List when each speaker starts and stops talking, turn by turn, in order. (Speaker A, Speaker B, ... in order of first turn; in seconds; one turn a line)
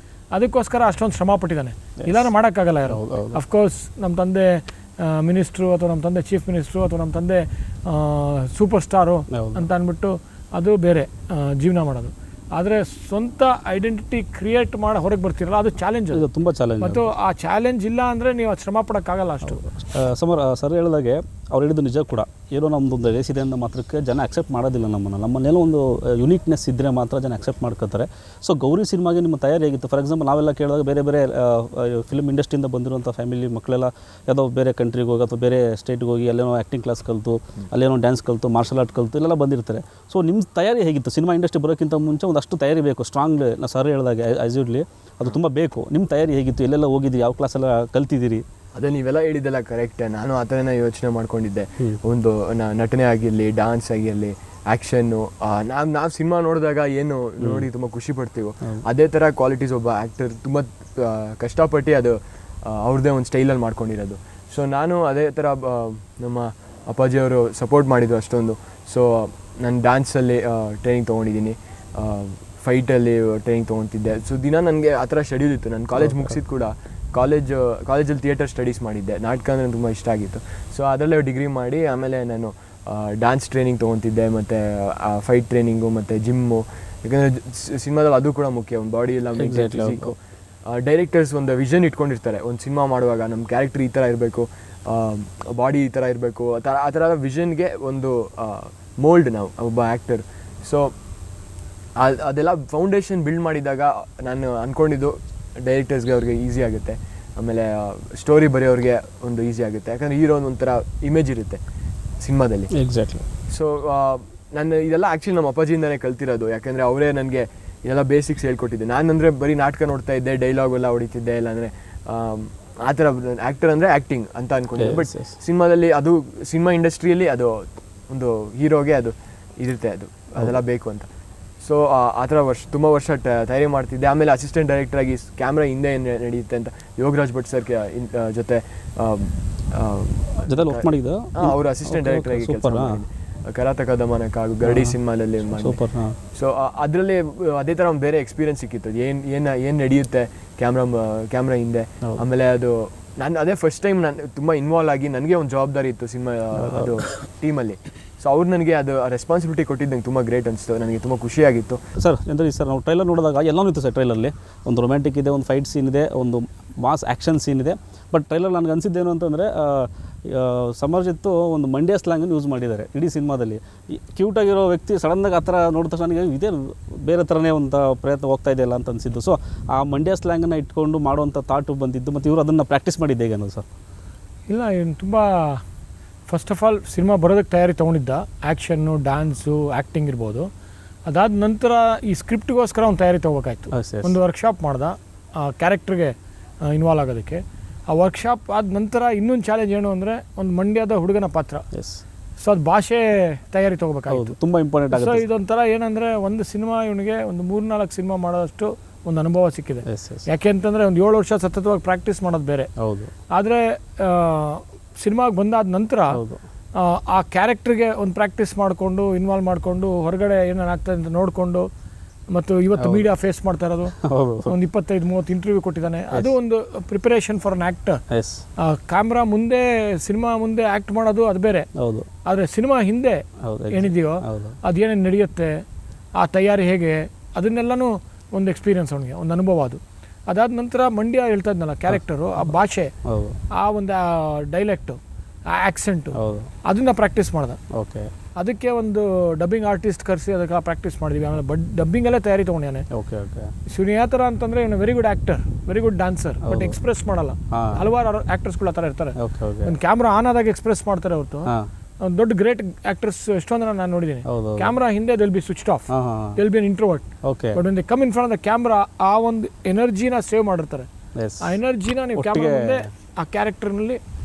Speaker A: 0.3-16.3
Speaker B: 2.0-2.3
Speaker B: 2.9-3.4
Speaker B: 9.3-9.7
Speaker B: 16.1-17.1
Speaker A: 16.8-19.6
Speaker B: 19.5-48.4
Speaker C: 48.8-90.2
Speaker B: 57.4-57.7
Speaker B: 76.0-76.4
Speaker B: 89.4-90.1
Speaker C: 90.7-100.9
Speaker C: 102.0-111.6
Speaker C: 112.2-112.7
Speaker B: 112.7-113.2
Speaker C: 113.5-131.1
Speaker B: 124.8-125.4
Speaker C: 131.6-145.8
Speaker B: 140.5-143.0
Speaker B: 144.7-145.0
Speaker B: 145.5-146.2
Speaker C: 146.3-161.8
Speaker B: 156.6-157.0
Speaker B: 162.0-183.7
Speaker A: 184.5-185.6
Speaker A: 186.3-190.5
Speaker A: 191.1-196.2
Speaker B: 193.7-194.2
Speaker A: 196.7-201.7
Speaker B: 201.7-202.0
Speaker A: 202.4-204.4
Speaker B: 204.1-205.2
Speaker A: 204.9-212.7
Speaker B: 209.9-210.3
Speaker B: 212.8-213.1
Speaker A: 213.4-216.2
Speaker B: 216.1-216.4
Speaker A: 216.8-221.7
Speaker A: 222.3-228.0
Speaker B: 222.8-223.1
Speaker B: 224.0-224.5
Speaker B: 228.1-228.4
Speaker A: 228.6-231.7
Speaker B: 231.8-232.1
Speaker A: 232.3-235.6
Speaker B: 233.4-234.6
Speaker A: 236.2-242.9
Speaker B: 241.9-242.5
Speaker B: 243.1-243.4
Speaker A: 243.6-245.0
Speaker A: 245.5-247.6
Speaker B: 246.2-246.5
Speaker B: 247.7-248.1
Speaker A: 248.4-252.9
Speaker B: 252.9-253.5
Speaker A: 253.7-261.5
Speaker B: 256.4-256.8
Speaker B: 257.5-257.8
Speaker B: 259.2-259.8
Speaker A: 262.0-270.9
Speaker B: 264.3-264.7
Speaker B: 265.9-266.4
Speaker B: 267.2-267.6
Speaker B: 271.2-271.6
Speaker A: 271.4-274.0
Speaker B: 272.2-272.8